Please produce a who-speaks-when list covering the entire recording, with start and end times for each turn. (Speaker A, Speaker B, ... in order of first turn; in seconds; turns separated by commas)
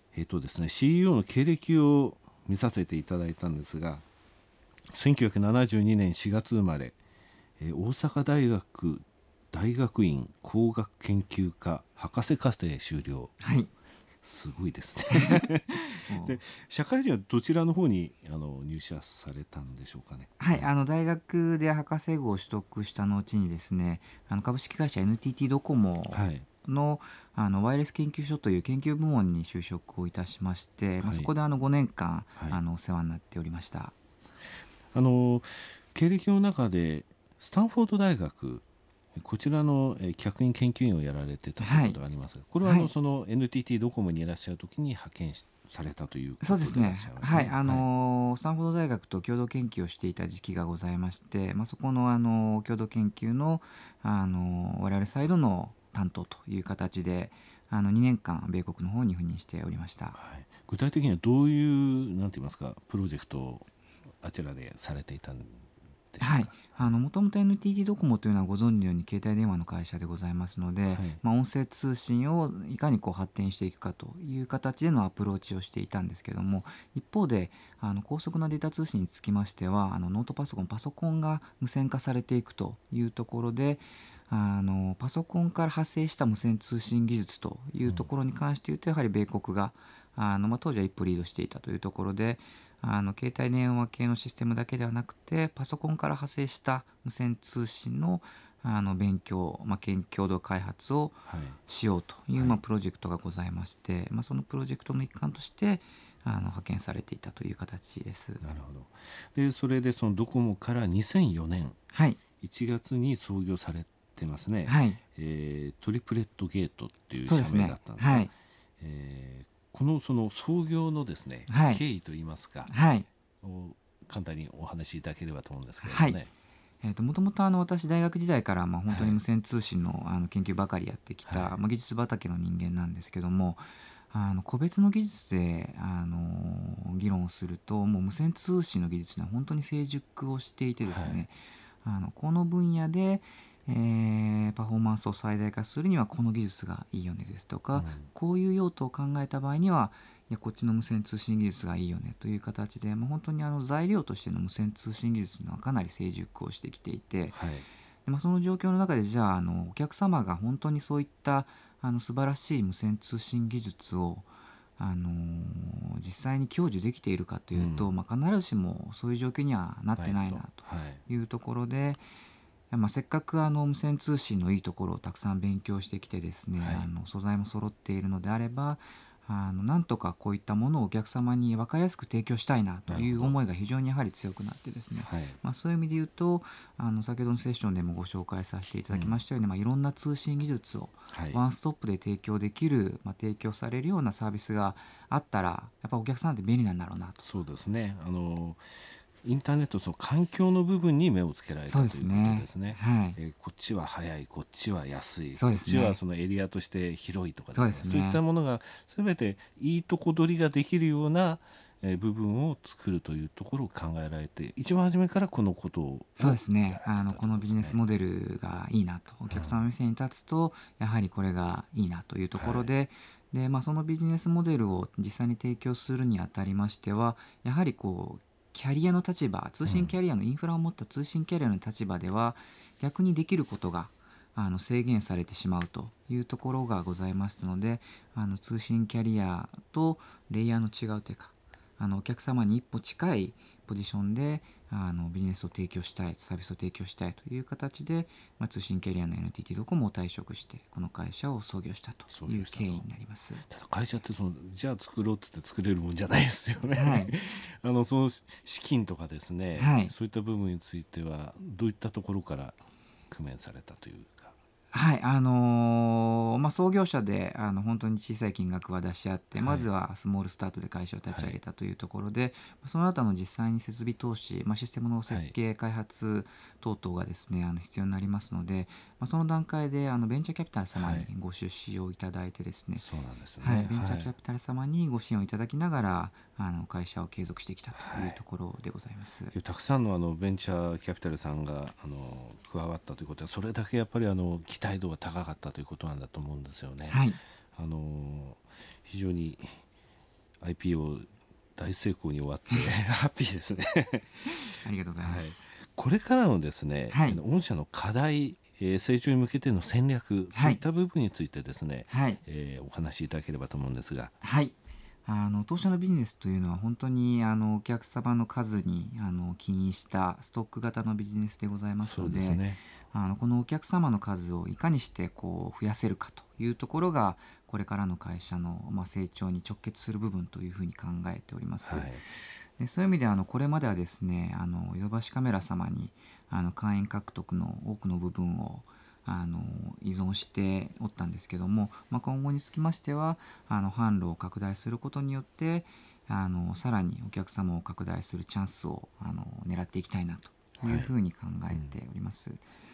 Speaker A: 0.1-4.0, Speaker A: 4.9-7.0, Speaker A: 7.6-13.3, Speaker B: 13.4-13.7, Speaker A: 14.2-20.7, Speaker B: 15.1-16.4, Speaker B: 20.4-33.9, Speaker A: 26.1-26.5, Speaker A: 31.0-31.3, Speaker A: 34.9-47.9, Speaker B: 41.6-42.0, Speaker B: 42.6-42.9, Speaker B: 46.4-60.2, Speaker A: 60.1-63.7, Speaker A: 64.2-66.8, Speaker B: 66.2-108.4, Speaker A: 70.9-71.2, Speaker A: 101.3-101.6, Speaker A: 108.4-111.8, Speaker B: 111.9-112.2, Speaker A: 112.4-122.7, Speaker B: 114.6-115.0, Speaker B: 117.2-118.3, Speaker B: 121.5-121.8, Speaker B: 122.7-123.1, Speaker A: 123.4-126.3, Speaker B: 125.8-126.2, Speaker B: 126.8-157.4, Speaker A: 128.9-129.2, Speaker A: 131.2-131.6, Speaker A: 140.8-141.2, Speaker A: 147.7-148.1, Speaker A: 157.3-157.7, Speaker B: 158.1-172.0, Speaker A: 167.5-167.9, Speaker A: 169.9-171.0, Speaker B: 172.7-197.2, Speaker A: 176.6-176.9, Speaker A: 182.9-183.4, Speaker A: 185.0-185.4, Speaker A: 188.9-189.2, Speaker A: 191.1-191.4, Speaker A: 197.2-198.7, Speaker A: 199.2-217.8, Speaker B: 201.7-203.2, Speaker B: 205.3-206.0, Speaker B: 207.5-208.2, Speaker B: 216.2-253.4, Speaker A: 219.3-219.6, Speaker A: 222.3-222.7, Speaker A: 229.6-229.9, Speaker A: 252.1-252.9, Speaker A: 253.5-262.6, Speaker B: 256.7-257.1, Speaker B: 259.6-259.9, Speaker A: 263.1-264.3, Speaker B: 264.7-282.8, Speaker A: 269.4-269.7, Speaker A: 271.1-271.4, Speaker A: 275.1-275.3, Speaker A: 280.8-281.1, Speaker A: 282.8-284.1, Speaker B: 283.4-289.3, Speaker A: 287.7-288.2, Speaker A: 289.3-297.0, Speaker B: 296.9-297.2, Speaker A: 297.5-299.6, Speaker A: 300.4-314.1, Speaker B: 304.6-305.5, Speaker B: 306.9-307.2, Speaker B: 310.3-310.6, Speaker B: 311.9-312.2, Speaker B: 314.2-352.4, Speaker A: 321.8-322.6, Speaker A: 331.6-332.0, Speaker A: 350.6-350.9, Speaker A: 351.5-351.7